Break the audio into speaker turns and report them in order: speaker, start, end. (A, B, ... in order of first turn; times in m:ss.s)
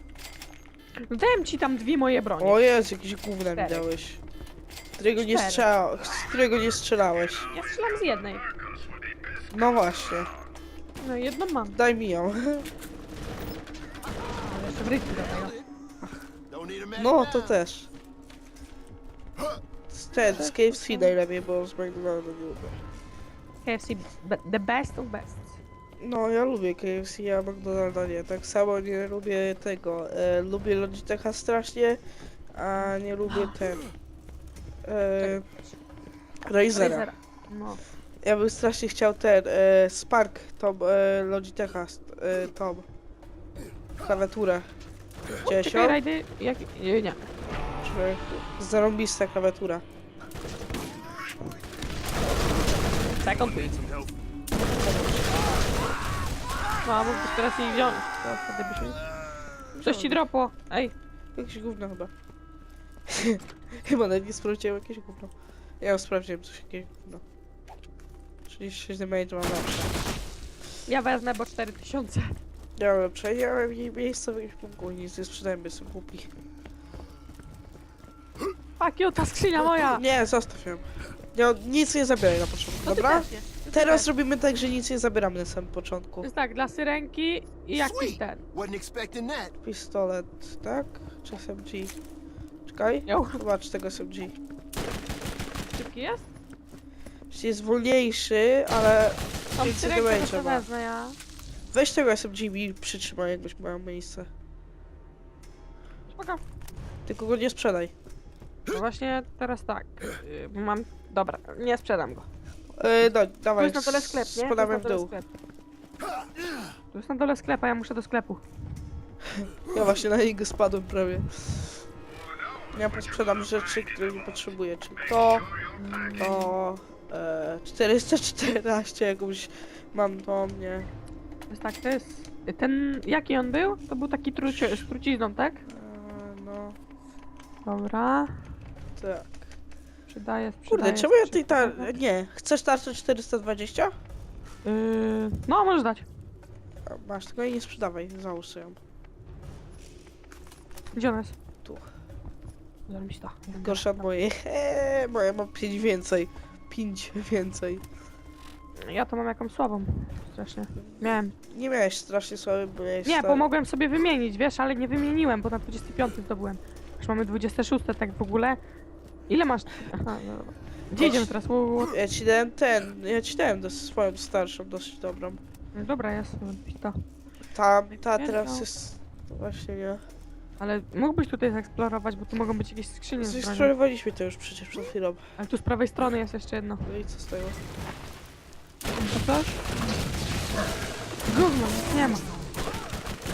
0:01.0-0:02.6 A
0:02.4-0:04.2 B
0:03.6-0:03.8 A
0:05.0-0:07.5 B
0:05.2-0:05.7 A
0:07.5-0:08.5 A
0:09.5-0:10.3 B
0:11.0-0:11.8 A
0:11.8-0:12.7 B
0:14.5-0:15.6 A
0:16.5-0:17.5 C
0:17.0-0:17.9 B
0:19.9-0:22.8 B
0:20.2-0:21.2 A
0:23.6-0:25.6 A
0:26.0-0:32.0 B
0:32.6-0:33.9 B
0:34.9-0:35.4 B
0:36.5-0:37.1 B
0:36.7-0:37.8 A
0:38.2-0:42.9 B
0:44.0-0:44.7 B
0:45.4-0:47.3 A
0:45.5-0:46.0 B
0:47.8-0:49.8 B
0:53.2-0:53.8 A
0:54.5-0:55.6 B
0:56.8-0:59.0 A
0:59.8-1:00.2 B
0:59.8-1:01.0 A
1:01.4-1:02.1 B
1:03.1-1:07.2 B
1:08.5-1:10.0 B
1:10.9-1:12.4 A
1:12.8-1:16.3 B
1:18.8-1:20.0 A
1:19.6-1:26.3 B
1:22.8-1:24.1 A
1:26.2-1:28.4 A
1:27.8-1:29.6 C
1:29.6-1:32.0 B
1:32.7-1:34.4 B
1:33.1-1:33.4 A
1:35.7-1:36.3 A
1:37.3-1:40.7 B
1:39.6-1:41.2 A
1:41.7-1:44.3 B
1:46.1-1:46.4 A
1:47.1-1:47.9 B
1:48.7-1:55.3 A
1:52.8-1:55.1 B
1:56.9-1:58.4 A
1:59.2-2:01.8 B
2:02.7-2:05.5 B
2:05.8-2:06.6 A
2:06.2-2:10.9 B
2:11.5-2:15.6 A
2:14.5-2:14.8 B
2:15.7-2:16.8 B
2:17.7-2:18.4 A
2:19.0-2:19.5 B
2:20.1-2:21.9 A
2:20.7-2:24.0 B
2:24.6-2:26.1 A
2:26.9-2:28.8 B
2:30.9-2:31.4 A
2:32.9-2:34.0 A
2:33.6-2:37.8 B
2:38.8-2:41.4 A
2:40.9-2:43.5 B
2:43.0-2:48.6 A
2:49.3-2:52.0 A
2:51.0-2:51.3 B
2:51.9-2:55.4 B
2:55.8-2:57.0 A
2:57.5-3:00.0 B
2:58.1-2:58.6 A
3:00.6-3:03.7 A
3:03.2-3:05.2 B
3:05.4-3:06.9 A
3:06.9-3:07.6 B
3:09.0-3:09.6 A
3:11.3-3:12.3 A